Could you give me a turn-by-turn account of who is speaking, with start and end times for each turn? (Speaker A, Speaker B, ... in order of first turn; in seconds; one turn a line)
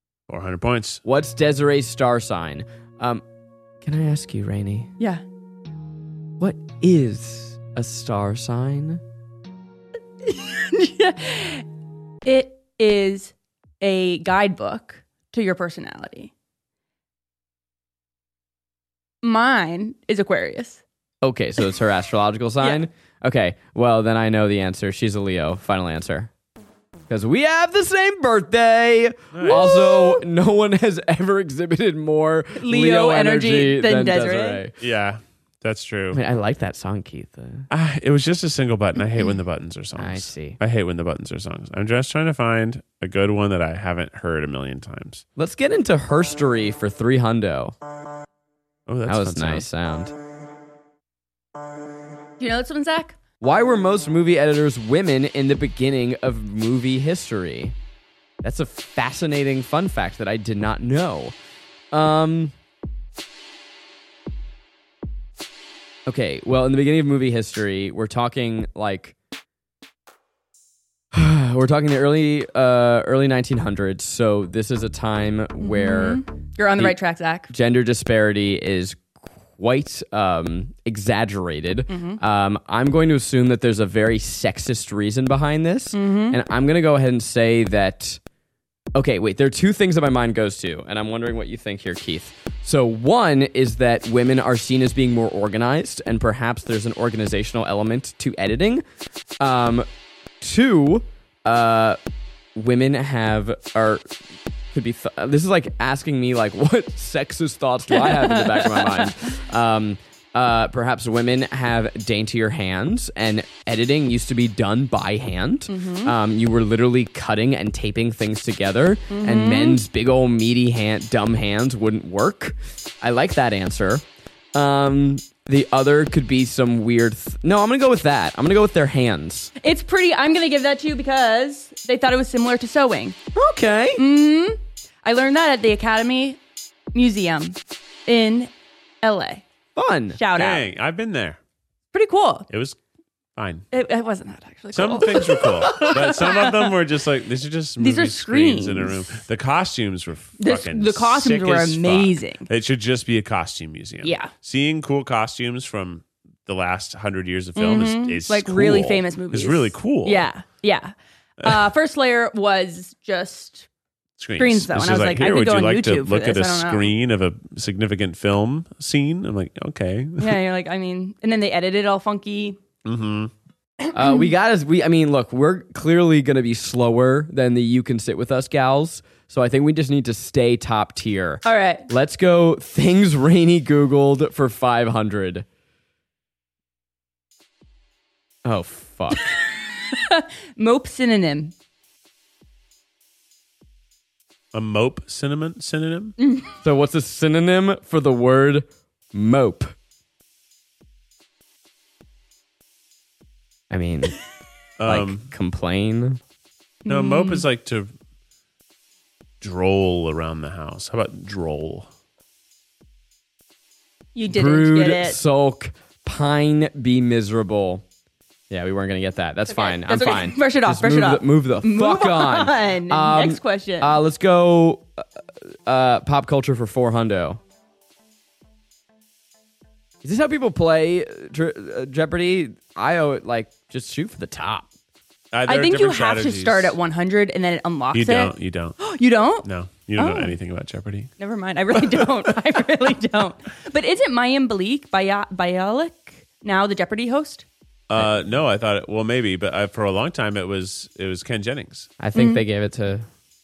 Speaker A: 0.3-1.0
Speaker B: 1.0-3.2
Speaker B: 3.8-4.9
Speaker B: 6.4-9.0
Speaker C: 10.2-11.7
Speaker C: 12.2-16.3
Speaker C: 19.2-20.8
Speaker B: 21.2-26.3
Speaker B: 27.1-34.7
Speaker A: 29.3-30.0
Speaker C: 29.4-30.2
Speaker C: 32.5-34.6
Speaker A: 34.8-36.2
Speaker B: 36.1-37.7
Speaker A: 37.7-45.2
Speaker B: 40.0-40.6
Speaker B: 45.4-47.8
Speaker A: 48.9-49.7
Speaker B: 49.1-50.1
Speaker C: 52.4-53.2
Speaker B: 53.4-57.8
Speaker B: 58.4-61.4
Speaker B: 61.9-62.5
Speaker B: 66.1-69.2
Speaker B: 71.1-76.2
Speaker C: 75.6-77.5
Speaker B: 77.5-88.2
Speaker C: 81.9-82.2
Speaker C: 85.9-86.4
Speaker B: 89.0-98.8
Speaker B: 99.4-99.9
Speaker B: 100.4-102.0
Speaker B: 102.5-104.1
Speaker B: 104.7-124.0
Speaker C: 107.9-109.1
Speaker C: 115.7-116.2
Speaker C: 119.1-119.8
Speaker B: 124.5-129.5
Speaker C: 129.6-133.2
Speaker B: 133.3-134.0
Speaker C: 134.0-136.4
Speaker C: 136.9-139.4
Speaker B: 139.8-140.2
Speaker C: 140.1-140.7
Speaker A: 140.3-141.4
Speaker C: 141.9-142.5
Speaker A: 142.5-142.8
Speaker A: 143.4-143.7
Speaker C: 143.7-146.8
Speaker A: 144.7-160.3
Speaker C: 147.8-149.2
Speaker C: 150.4-152.5
Speaker C: 154.0-154.3
Speaker C: 157.6-163.7
Speaker A: 164.2-170.4
Speaker C: 164.4-166.9
Speaker C: 170.2-172.6
Speaker A: 172.8-173.3
Speaker B: 173.9-185.4
Speaker C: 174.0-174.3
Speaker C: 181.4-181.9
Speaker B: 188.4-189.3
Speaker C: 189.1-191.5
Speaker A: 194.5-196.2
Speaker C: 196.2-196.5
Speaker B: 196.6-199.7
Speaker B: 203.7-204.2
Speaker A: 204.8-205.3
Speaker B: 204.9-206.2
Speaker C: 206.8-207.4
Speaker A: 206.9-207.9
Speaker A: 209.4-211.9
Speaker C: 214.2-215.2
Speaker B: 214.3-217.8
Speaker B: 218.5-225.1
Speaker C: 219.5-224.0
Speaker B: 225.7-227.4
Speaker B: 230.0-234.7
Speaker A: 235.3-236.8
Speaker C: 235.5-240.4
Speaker A: 237.9-238.8
Speaker A: 239.4-241.1
Speaker C: 241.2-247.5
Speaker A: 241.8-242.2
Speaker A: 247.9-251.9
Speaker B: 252.0-253.1
Speaker C: 252.1-252.4